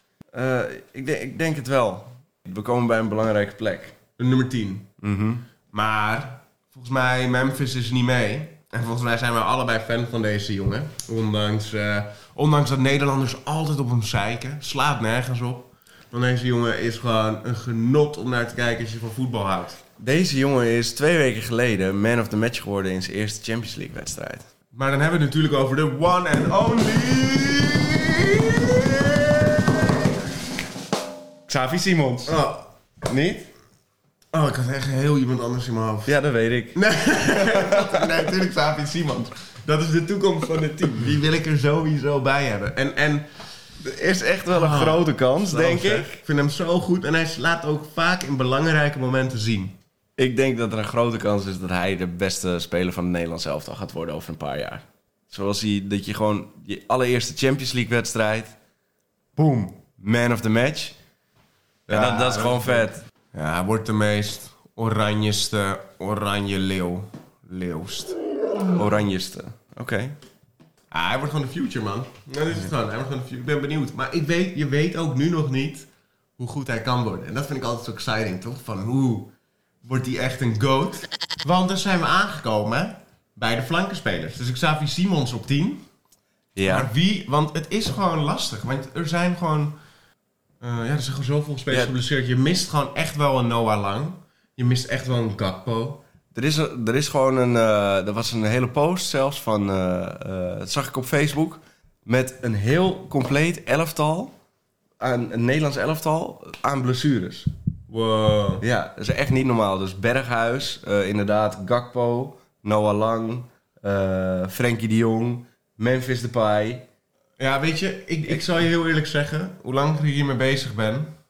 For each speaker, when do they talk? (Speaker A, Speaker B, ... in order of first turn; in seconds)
Speaker A: 0.3-4.0, 5.0-5.4, 20.0-24.4, 31.5-32.4, 33.0-33.5, 36.0-36.8, 37.4-38.1, 43.8-46.2, 50.2-58.5, 59.4-61.0, 61.9-63.0, 68.7-70.2, 86.5-86.9, 91.7-91.9, 96.3-104.3, 105.0-107.5, 108.6-116.8
Speaker B: 4.2-4.9, 5.7-19.8, 24.7-30.1, 32.2-32.7, 34.3-36.1, 36.7-43.2, 44.5-49.8, 61.9-68.2, 70.9-79.3, 79.8-85.8, 86.6-89.7, 90.6-96.0, 107.9-108.6, 117.4-121.1